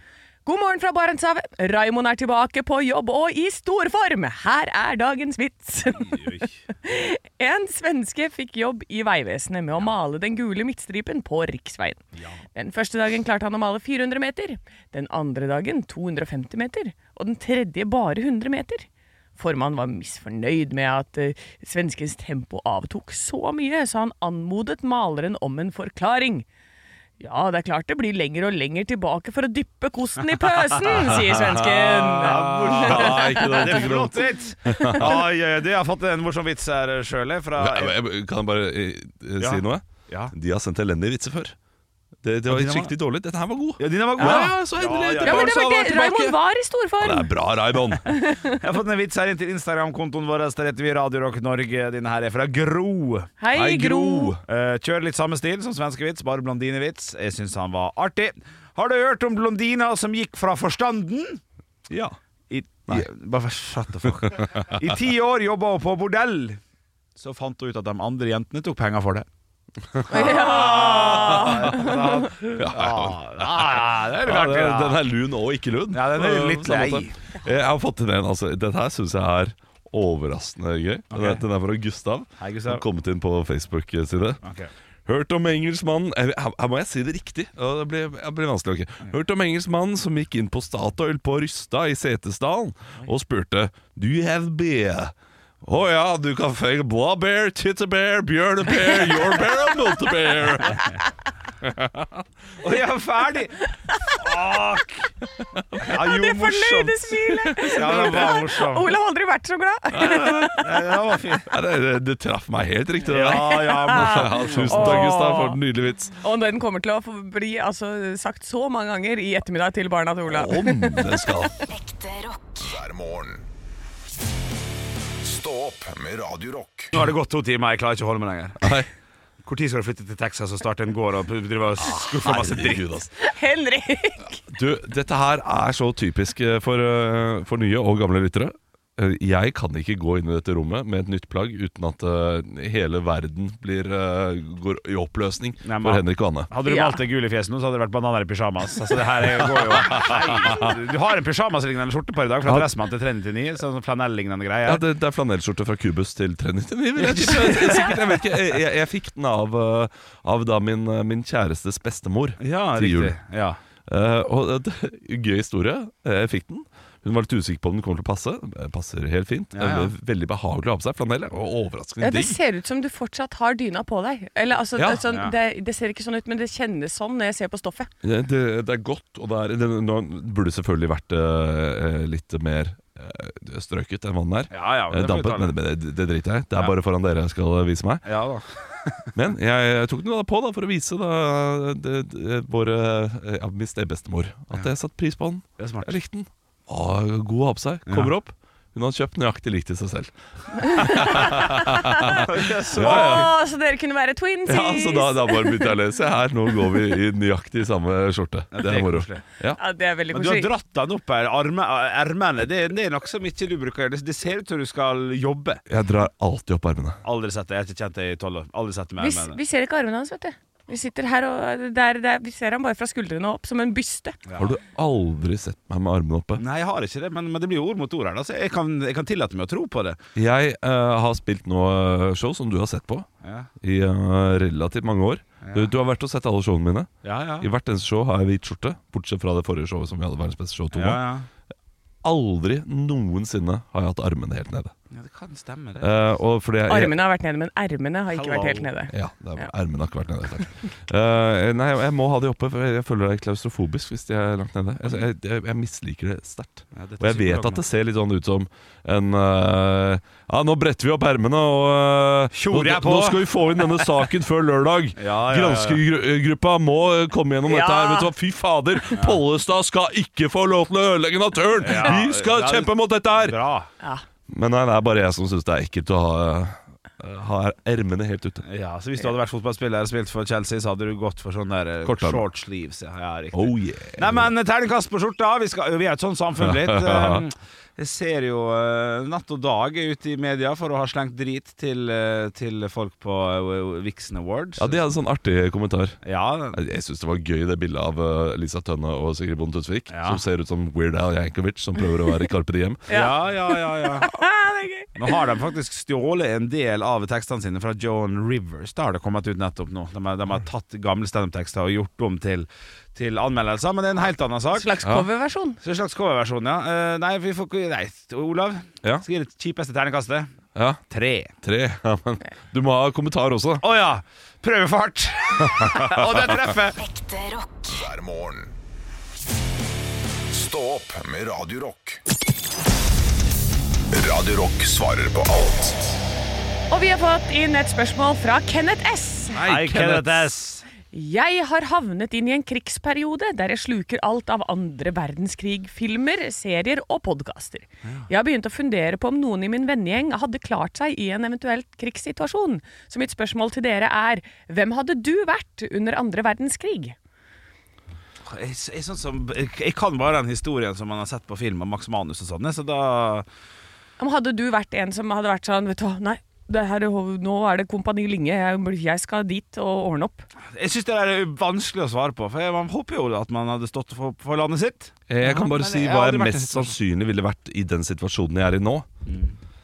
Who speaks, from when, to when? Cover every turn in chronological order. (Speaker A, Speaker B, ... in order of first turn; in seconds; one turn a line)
Speaker A: 0.4-12.0
Speaker B: 6.0-6.5
Speaker A: 12.5-26.4
Speaker A: 27.2-33.6
Speaker C: 30.9-35.2
Speaker B: 32.2-37.9
Speaker A: 34.7-35.0
Speaker C: 37.6-41.5
Speaker B: 39.4-40.3
Speaker C: 42.2-46.4
Speaker B: 42.5-42.9
Speaker B: 43.8-45.5
Speaker A: 44.2-47.3
Speaker C: 47.0-48.1
Speaker A: 48.0-48.5
Speaker B: 48.6-53.3
Speaker A: 53.4-54.3
Speaker C: 53.5-54.4
Speaker B: 54.5-61.4
Speaker C: 61.9-62.1
Speaker B: 62.5-66.6
Speaker B: 67.2-69.2
Speaker C: 69.9-84.4
Speaker A: 70.1-72.3
Speaker B: 70.1-75.0
Speaker B: 75.9-77.2
Speaker B: 81.1-81.4
Speaker B: 82.4-82.8
Speaker B: 84.4-84.7
Speaker C: 85.0-100.8
Speaker C: 101.6-102.2
Speaker B: 102.6-105.1
Speaker C: 105.6-105.9
Speaker B: 105.8-107.0
Speaker A: 105.9-110.6
Speaker C: 107.5-108.3
Speaker B: 107.6-109.0
Speaker C: 109.9-110.7
Speaker B: 110.6-111.5
Speaker C: 111.5-116.1
Speaker B: 113.0-115.2
Speaker A: 113.4-115.6
Speaker A: 116.2-121.3
Speaker C: 120.3-121.6
Speaker D: 121.8-123.5
Speaker D: 125.2-126.9
Speaker B: 126.9-128.7
Speaker C: 128.6-128.9
Speaker B: 129.4-132.8
Speaker C: 131.8-133.1
Speaker A: 133.2-134.4
Speaker C: 134.5-146.5
Speaker B: 145.6-154.8
Speaker A: 146.6-147.0
Speaker C: 149.4-150.7
Speaker C: 154.6-163.1
Speaker B: 157.0-158.0
Speaker B: 162.4-163.6
Speaker C: 163.9-172.4
Speaker B: 169.5-169.9
Speaker A: 172.0-177.9
Speaker C: 174.8-175.0
Speaker B: 175.0-175.3
Speaker C: 178.0-188.1
Speaker B: 184.5-185.6
Speaker B: 188.0-189.1
Speaker C: 189.1-203.3
Speaker B: 195.6-195.9
Speaker B: 197.9-198.1
Speaker A: 200.6-205.7
Speaker B: 202.1-203.3
Speaker C: 204.4-209.6
Speaker B: 208.5-209.2
Speaker A: 209.6-210.5
Speaker B: 210.1-215.6
Speaker C: 215.7-217.0
Speaker B: 217.0-219.4
Speaker A: 219.0-224.2
Speaker B: 224.3-224.6
Speaker C: 224.4-226.4
Speaker B: 226.3-230.0
Speaker C: 230.2-233.1
Speaker B: 233.2-233.5
Speaker C: 233.6-241.0
Speaker B: 235.4-235.7
Speaker B: 237.0-237.5
Speaker B: 240.7-241.3
Speaker C: 242.0-244.7
Speaker B: 244.9-246.0
Speaker C: 245.8-246.9
Speaker A: 246.7-249.5
Speaker B: 248.1-248.7
Speaker C: 248.9-273.4
Speaker B: 256.7-257.6
Speaker B: 262.3-263.3
Speaker B: 265.0-265.8
Speaker A: 267.5-268.1
Speaker B: 268.9-269.2
Speaker B: 271.6-273.7
Speaker C: 274.3-278.4
Speaker B: 278.4-294.8
Speaker C: 281.8-282.2
Speaker C: 283.3-284.3
Speaker C: 286.4-287.2
Speaker C: 294.6-296.0
Speaker B: 296.0-296.6
Speaker C: 296.5-302.9
Speaker B: 299.9-300.2
Speaker A: 302.9-305.2
Speaker B: 302.9-304.1
Speaker B: 304.9-314.8
Speaker A: 314.5-315.6
Speaker B: 315.6-320.3
Speaker C: 320.5-320.8
Speaker B: 320.9-321.3
Speaker C: 321.4-323.7
Speaker B: 323.6-326.8
Speaker C: 325.4-325.9
Speaker D: 327.0-328.5
Speaker D: 330.3-332.0
Speaker D: 333.9-335.9
Speaker A: 336.7-339.4
Speaker C: 339.3-340.3
Speaker B: 339.4-340.6
Speaker A: 340.9-356.9
Speaker B: 358.2-363.3
Speaker A: 364.0-370.3
Speaker B: 370.5-376.8
Speaker C: 375.1-378.9
Speaker A: 375.2-375.5
Speaker B: 379.1-379.4